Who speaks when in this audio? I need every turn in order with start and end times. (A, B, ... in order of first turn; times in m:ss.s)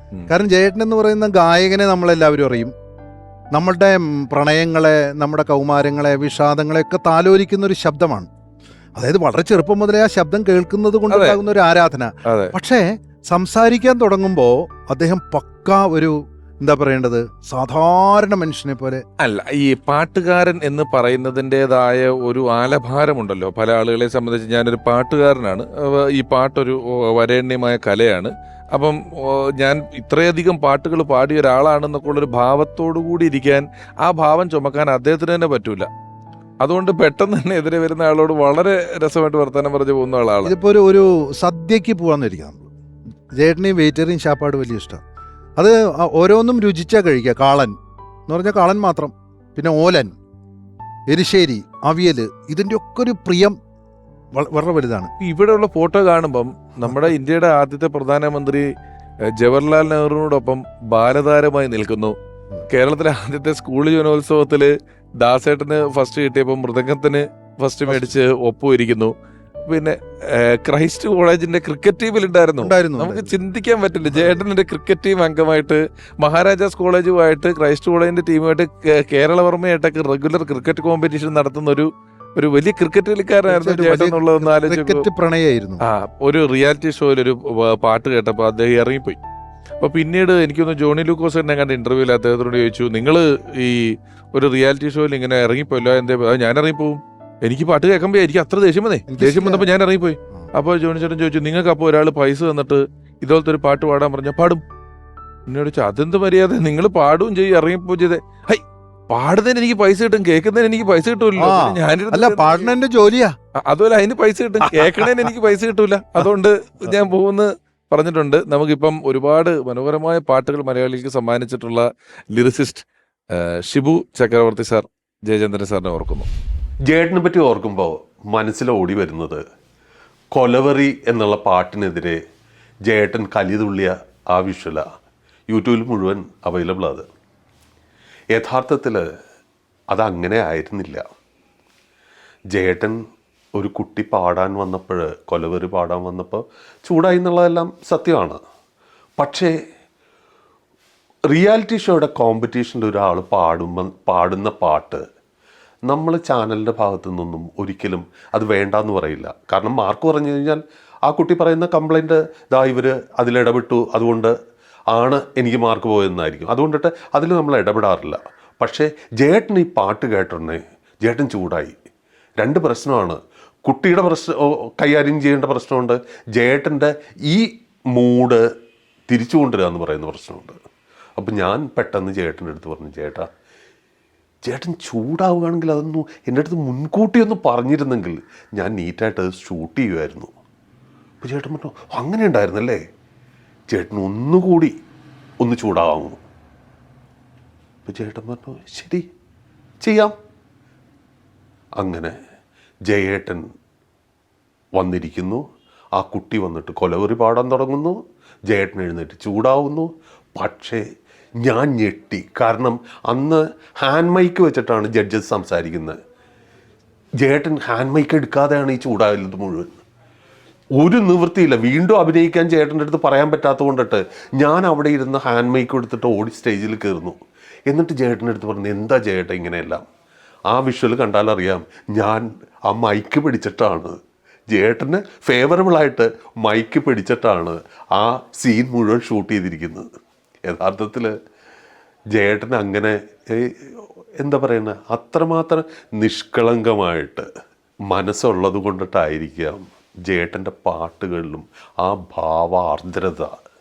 0:00.3-0:02.7 A
0:03.5-0:08.3 A
0:09.0-0:19.0 A
0:11.1-0:11.4 B
0:12.3-0:12.5 B
0:19.2-0:35.9 B
0:36.6-0:40.5 B
0:40.4-0:42.7 A
0:43.4-0:45.0 A
0:45.6-0:47.7 A
0:48.3-0:50.2 A
0:51.1-0:53.6 A
0:54.3-0:55.1 A
0:55.2-0:58.7 B
0:59.3-1:02.2 B
1:02.7-1:09.1 B
1:07.9-1:08.1 A
1:09.7-1:25.0 B
1:12.6-1:13.3 A
1:14.1-1:14.4 A
1:23.5-1:25.8 A
1:25.8-1:29.2 B
1:29.8-1:44.6 B
1:39.1-1:39.7 A
1:45.5-1:52.7 B
1:51.4-1:53.3 A
1:53.6-2:06.3 B
2:06.8-2:09.4 C
2:10.3-2:12.2 C
2:12.8-2:14.9 C
2:15.5-2:17.0 C
2:18.3-2:19.0 C
2:19.9-2:21.0 C
2:22.5-2:23.0 C
2:23.6-2:28.4 C
2:29.2-2:29.5 C
2:31.3-2:35.0 C
2:35.9-2:44.3 C
2:44.9-2:51.7 C
2:52.4-2:58.4 C
2:59.1-3:00.6 C
3:01.2-3:03.3 C
3:04.4-3:10.3 C
3:11.2-3:12.8 C
3:13.7-3:14.7 C
3:15.4-3:16.2 C
3:17.8-3:19.0 C
3:19.8-3:20.1 C
3:21.8-3:22.2 C
3:22.9-3:23.4 C
3:24.8-3:25.4 C
3:26.0-3:30.8 C
3:31.4-3:36.0 C
3:37.2-3:39.8 C
3:40.8-3:47.2 C
3:47.7-3:49.8 C
3:50.5-3:54.0 C
3:54.5-3:59.9 C
4:00.5-4:01.1 C
4:02.1-4:07.3 C
4:07.9-4:13.3 C